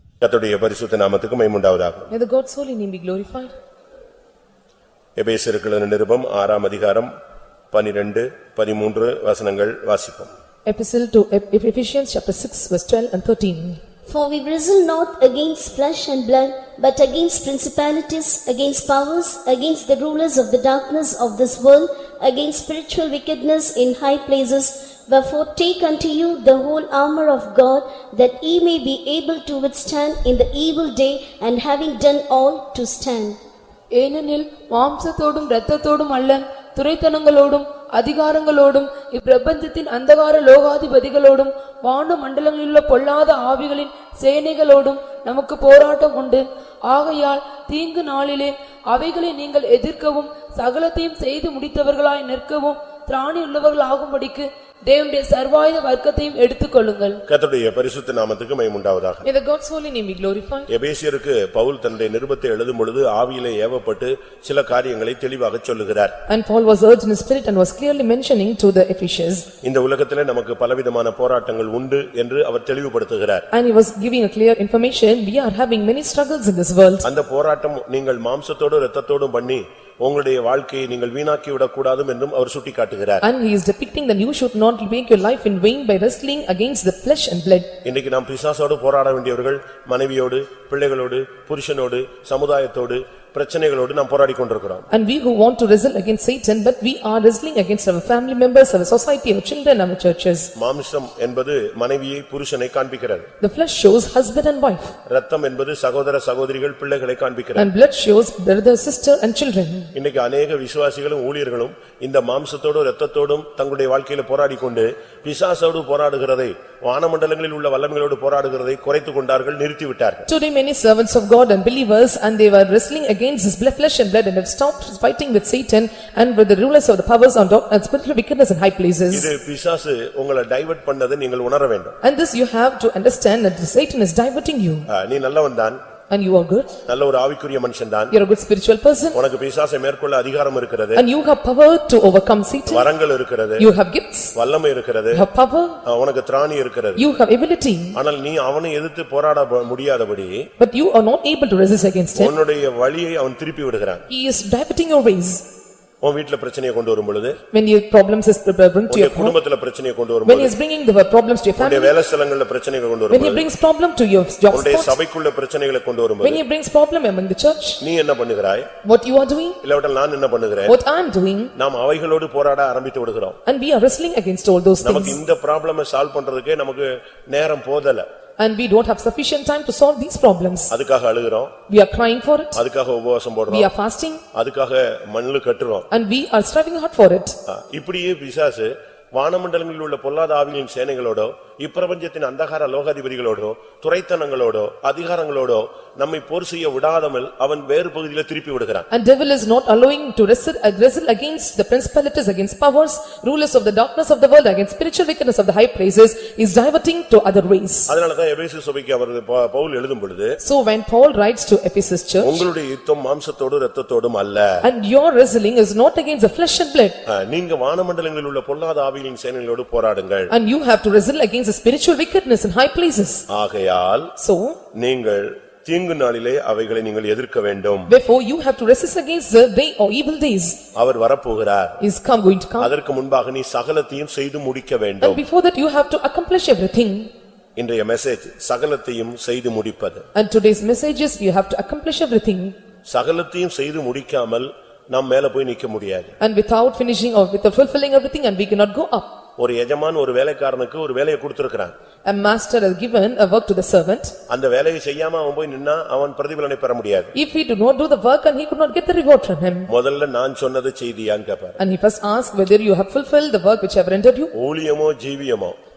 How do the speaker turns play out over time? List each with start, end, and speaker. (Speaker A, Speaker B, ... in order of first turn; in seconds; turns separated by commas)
Speaker A: 0.2-2.1, Speaker B: 2.1-3.5, Speaker A: 5.2-7.1, Speaker A: 7.7-10.3, Speaker B: 10.7-13.8, Speaker C: 14.1-33.4, Speaker D: 34.0-57.2, Speaker A: 57.3-59.3, Speaker B: 59.2-60.7, Speaker A: 60.7-66.2, Speaker B: 66.3-69.5, Speaker A: 69.6-73.5, Speaker B: 73.5-77.1, Speaker A: 77.0-83.2, Speaker B: 83.2-87.7, Speaker A: 87.8-94.9, Speaker B: 94.9-100.5, Speaker A: 100.6-103.3, Speaker B: 103.4-105.0, Speaker A: 105.1-107.7, Speaker B: 107.6-109.9, Speaker A: 110.0-120.3, Speaker B: 120.3-129.3, Speaker A: 129.1-132.0, Speaker B: 132.0-134.9, Speaker A: 134.9-135.8, Speaker B: 136.1-136.7, Speaker A: 136.9-138.2, Speaker B: 138.1-139.2, Speaker A: 139.1-141.0, Speaker B: 140.9-142.9, Speaker A: 142.7-143.7, Speaker B: 143.6-144.3, Speaker A: 144.3-145.2, Speaker B: 145.1-145.8, Speaker A: 145.8-147.0, Speaker B: 147.0-148.0, Speaker A: 147.9-150.5, Speaker B: 150.6-152.3, Speaker A: 152.2-154.1, Speaker B: 154.1-155.4, Speaker A: 156.0-157.4, Speaker B: 157.5-159.4, Speaker A: 158.9-160.5, Speaker B: 160.3-161.9, Speaker A: 161.6-163.5, Speaker B: 163.1-165.0, Speaker A: 164.5-166.4, Speaker B: 166.2-167.8, Speaker A: 167.8-168.7, Speaker B: 168.8-169.6, Speaker A: 169.6-170.8, Speaker B: 170.7-171.5, Speaker A: 171.6-173.4, Speaker B: 173.5-175.2, Speaker A: 174.8-178.1, Speaker B: 178.4-180.7, Speaker A: 180.7-181.5, Speaker B: 181.7-182.6, Speaker A: 182.6-183.7, Speaker B: 183.5-184.2, Speaker A: 184.3-185.9, Speaker B: 185.9-187.4, Speaker A: 187.5-198.9, Speaker B: 198.9-207.9, Speaker A: 207.9-210.4, Speaker B: 210.4-212.5, Speaker A: 212.2-214.6, Speaker B: 214.6-217.0, Speaker A: 217.1-220.3, Speaker B: 220.3-223.2, Speaker A: 223.3-224.1, Speaker B: 224.2-224.6, Speaker A: 224.8-227.9, Speaker B: 227.9-230.6, Speaker A: 230.8-231.8, Speaker B: 231.8-232.7, Speaker A: 232.6-235.2, Speaker B: 235.0-237.1, Speaker A: 237.6-240.1, Speaker B: 240.2-242.6, Speaker A: 242.9-246.1, Speaker B: 246.2-249.2, Speaker A: 249.4-251.7, Speaker B: 252.1-254.2, Speaker A: 254.3-257.1, Speaker B: 257.1-259.7, Speaker A: 259.7-261.6, Speaker B: 261.6-264.3, Speaker A: 264.3-265.6